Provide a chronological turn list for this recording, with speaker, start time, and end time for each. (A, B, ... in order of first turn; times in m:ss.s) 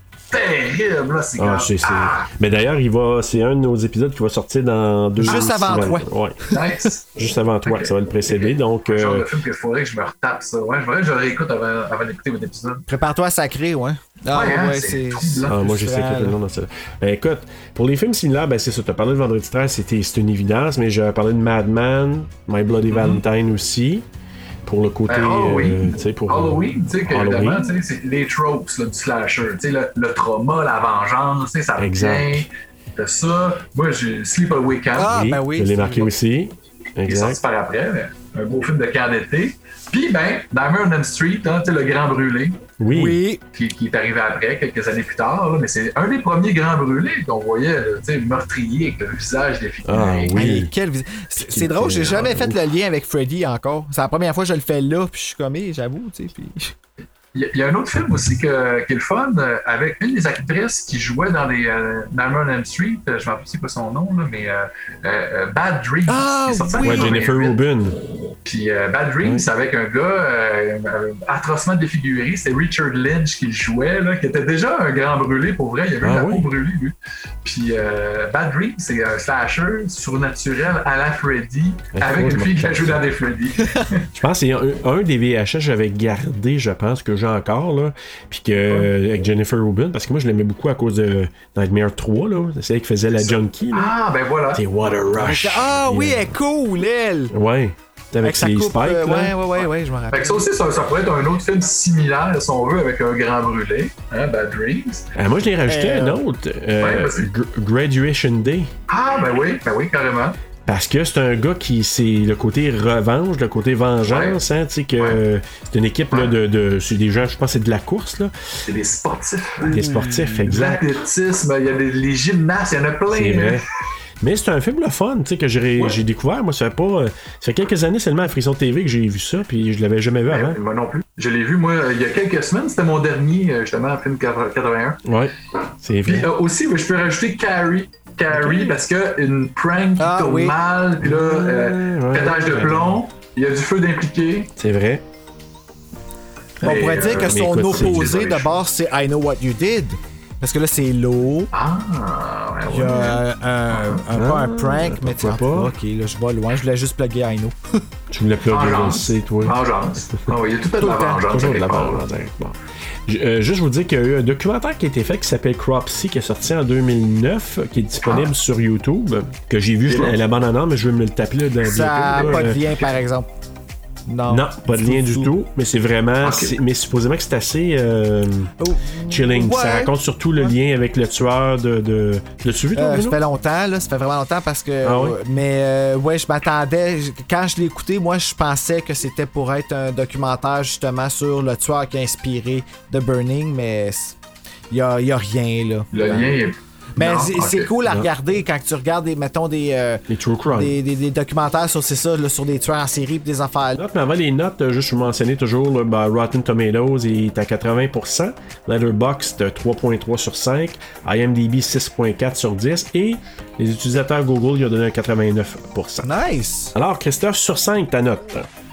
0:00.3-0:02.3 A
0:01.4-0:06.4 B
0:05.2-0:06.1 C
0:06.5-0:07.1 A
0:07.1-0:09.3 B
0:07.6-0:12.8 A
0:12.9-0:16.4 C
0:14.3-0:15.6 A
0:15.5-0:24.0 B
0:22.9-0:23.2 A
0:24.6-0:27.7 B
0:25.1-0:35.1 A
0:31.8-0:32.5 B
0:34.9-0:36.1 C
0:35.0-0:37.4 B
0:37.0-0:42.6 A
0:42.8-0:43.2 B
0:42.9-0:43.4 C
0:43.5-0:50.4 A
0:49.8-0:50.7 B
0:50.3-0:56.7 C
0:51.4-0:52.6 B
0:57.3-1:07.6 A
1:06.1-1:07.1 C
1:06.8-1:08.0 B
1:08.4-1:24.1 A
1:16.0-1:16.5 B
1:21.9-1:23.0 B
1:24.1-1:33.9 B
1:33.2-1:34.6 A
1:34.5-1:36.3 B
1:35.2-1:37.3 C
1:37.3-1:39.3 B
1:38.2-1:40.5 C
1:40.1-1:45.1 A
1:45.1-1:48.7 B
1:45.7-1:46.2 C
1:46.8-1:47.3 A
1:48.9-1:50.4 A
1:50.6-1:58.3 B
1:54.1-1:54.4 A
1:58.6-1:59.8 A
1:59.6-2:00.5 C
1:59.7-2:00.8 B
2:00.4-2:03.6 A
2:03.1-2:03.6 B
2:04.2-2:10.6 B
2:10.3-2:15.0 A
2:15.0-2:16.3 B
2:16.0-2:24.5 A
2:20.0-2:20.6 C
2:21.0-2:23.0 B
2:24.6-2:25.0 B
2:26.6-2:28.2 B
2:26.6-2:28.6 A
2:26.6-2:31.5 C
2:31.5-2:34.0 A
2:32.7-2:37.6 C
2:34.1-2:35.7 B
2:38.1-2:39.6 B
2:38.5-2:42.0 A
2:40.8-2:41.2 C
2:41.3-2:52.6 B
2:48.0-2:48.3 A
2:49.9-2:50.2 A
2:51.6-2:53.3 C
2:52.2-2:52.5 A
2:54.1-2:55.3 C
2:54.3-2:58.5 B
2:56.2-2:56.6 A
2:58.6-3:00.6 C
2:59.1-3:03.2 B
3:02.7-3:14.2 C
3:04.8-3:05.2 B
3:14.7-3:16.4 C
3:15.9-3:17.7 A
3:17.0-3:23.8 C
3:17.8-3:18.1 B
3:20.1-3:20.8 B
3:23.8-3:36.1 B
3:36.0-3:36.7 C
3:36.7-3:38.5 B